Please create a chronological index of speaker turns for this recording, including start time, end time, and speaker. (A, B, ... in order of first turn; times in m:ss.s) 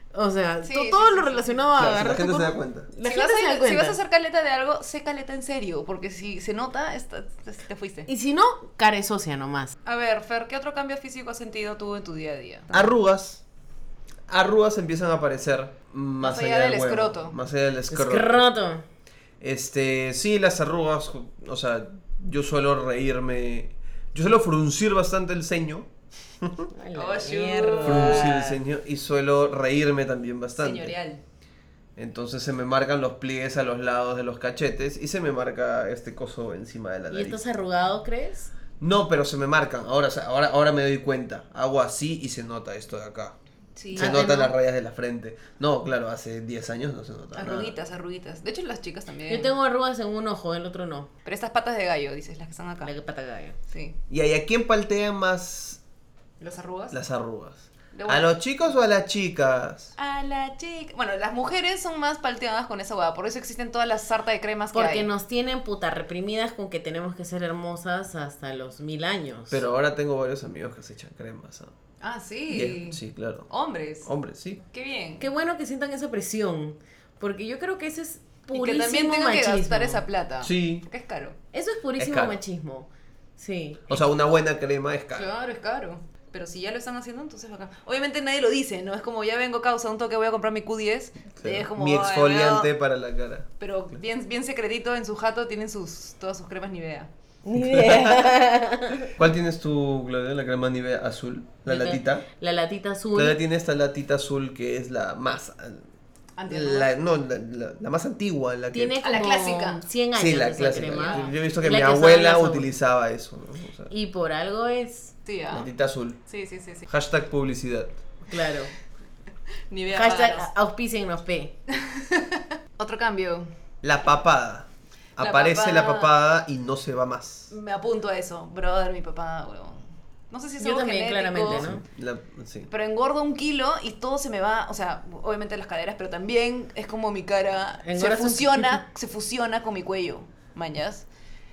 0:00.1-0:04.0 A
0:00.6-0:01.8 B
0:01.8-0:02.9 C
0:03.0-0:08.1 B
0:08.1-0:09.7 A
0:09.8-0:12.9 B
0:12.7-0:13.4 C
0:14.3-0:18.4 C
0:16.2-0:17.4 B
0:17.9-0:18.8 A
0:19.4-0:25.9 C
0:26.4-0:26.7 C
0:26.7-0:28.6 A
0:26.9-0:28.4 B
0:27.8-0:31.0 C
0:30.6-0:31.2 B
0:32.0-0:37.4 C
0:37.1-0:38.5 A
0:38.8-0:43.4 C
0:43.8-0:44.5 B
0:44.0-0:47.8 C
0:44.0-0:44.5 A
0:47.4-0:49.5 B
0:49.3-0:51.1 A
0:51.2-0:52.9 B
0:52.8-0:53.6 A
0:53.7-0:54.0 B
0:54.1-0:55.8 C
0:56.4-0:57.0 B
0:56.9-0:59.9 C
0:57.9-0:58.3 B
1:00.0-1:05.1 B
1:04.7-1:09.6 A
1:09.5-1:11.7 C
1:12.0-1:14.1 B
1:12.5-1:13.5 C
1:14.0-1:14.6 C
1:14.7-1:15.3 B
1:15.2-1:20.0 A
1:18.5-1:21.4 B
1:20.4-1:20.9 C
1:21.5-1:23.8 A
1:22.0-1:22.4 C
1:23.9-1:25.3 C
1:25.1-1:32.7 B
1:31.4-1:33.5 C
1:33.6-1:37.1 B
1:37.4-1:39.1 A
1:37.6-1:38.3 C
1:39.1-1:42.3 C
1:41.7-1:43.4 A
1:43.2-1:45.9 C
1:46.4-1:46.9 B
1:46.5-1:49.0 C
1:48.7-1:52.7 A
1:49.0-1:49.8 B
1:50.1-1:53.9 C
1:50.9-1:51.3 B
1:53.9-1:55.1 A
1:55.2-1:55.7 B
1:55.5-1:56.2 C
1:56.3-1:56.9 B
1:56.9-1:58.0 C
1:58.3-1:58.7 A
1:59.7-2:00.5 B
1:59.9-2:01.5 A
2:01.8-2:03.5 B
2:03.8-2:07.5 C
2:05.2-2:06.1 B
2:07.5-2:11.7 B
2:10.6-2:11.8 A
2:11.5-2:12.7 C
2:12.7-2:21.1 B
2:17.8-2:18.8 A